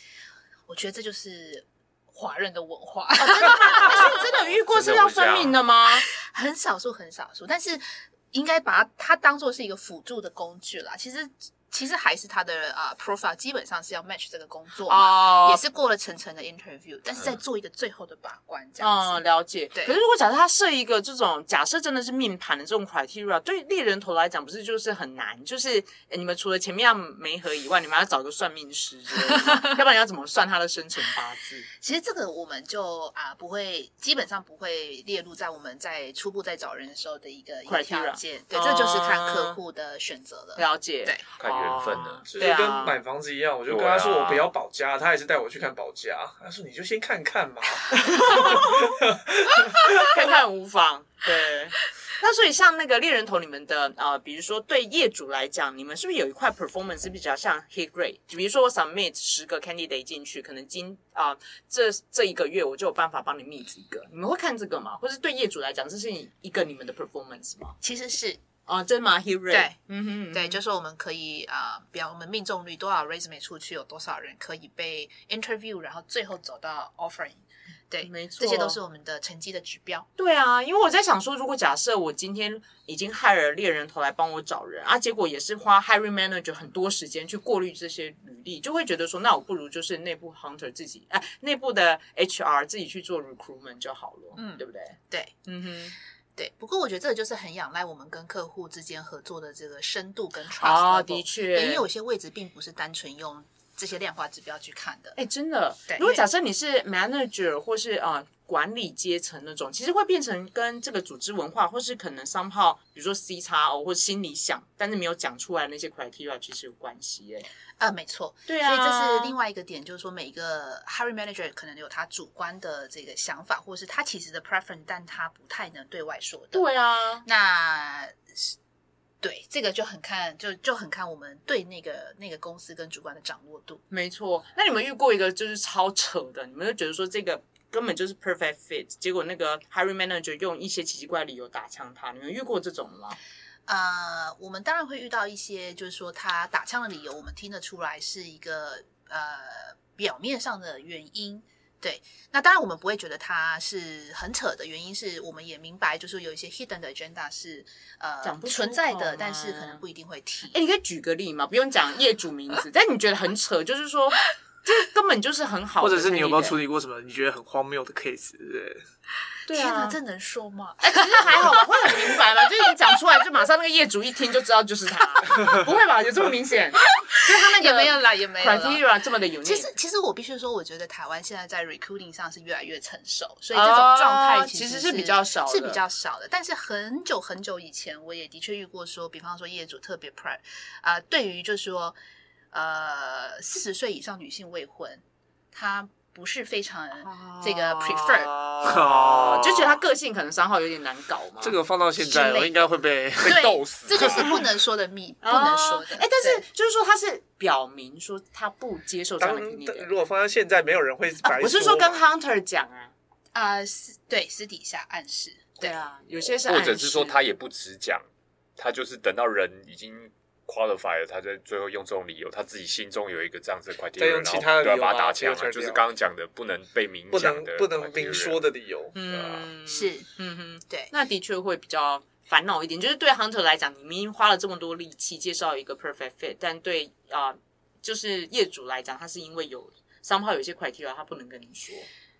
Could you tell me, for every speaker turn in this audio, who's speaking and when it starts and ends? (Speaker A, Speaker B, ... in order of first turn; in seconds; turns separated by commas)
Speaker A: 0.7-4.5, Speaker B: 3.2-6.0, Speaker C: 4.4-5.6, Speaker A: 6.1-19.2, Speaker B: 14.9-15.6, Speaker B: 18.8-31.7, Speaker A: 31.8-41.2, Speaker B: 37.7-39.6, Speaker B: 40.6-43.0, Speaker C: 41.4-42.3, Speaker D: 42.3-50.3, Speaker C: 43.7-44.5, Speaker B: 48.0-48.9, Speaker B: 49.8-67.8, Speaker A: 67.8-68.4, Speaker B: 68.7-70.6, Speaker A: 69.5-69.8, Speaker A: 70.3-80.1, Speaker B: 78.0-78.8, Speaker B: 80.2-95.9, Speaker A: 94.3-95.3, Speaker A: 96.3-105.2, Speaker B: 100.6-101.8, Speaker B: 105.2-117.5, Speaker A: 105.9-106.2, Speaker A: 117.8-126.7, Speaker B: 118.5-119.3, Speaker B: 126.5-127.2, Speaker A: 127.2-128.5, Speaker A: 129.2-133.8, Speaker B: 133.9-143.2, Speaker A: 143.7-160.6, Speaker B: 158.2-159.8, Speaker B: 160.5-166.6, Speaker D: 165.8-168.8, Speaker B: 169.5-170.0, Speaker A: 169.5-172.2, Speaker B: 170.8-179.7, Speaker A: 177.0-178.8, Speaker A: 179.4-191.9, Speaker B: 183.5-185.8, Speaker A: 192.5-198.3, Speaker B: 197.0-201.6, Speaker D: 198.6-199.8, Speaker D: 201.4-204.0, Speaker A: 202.0-202.6, Speaker C: 203.2-204.3, Speaker A: 203.2-206.4, Speaker B: 205.2-209.9, Speaker D: 209.2-212.0, Speaker B: 211.2-212.9, Speaker A: 213.3-215.8, Speaker B: 215.6-217.2, Speaker C: 216.5-218.1, Speaker C: 218.6-228.4, Speaker D: 224.0-225.8, Speaker D: 227.1-228.9, Speaker B: 228.9-241.9, Speaker C: 229.1-229.5, Speaker A: 229.7-230.1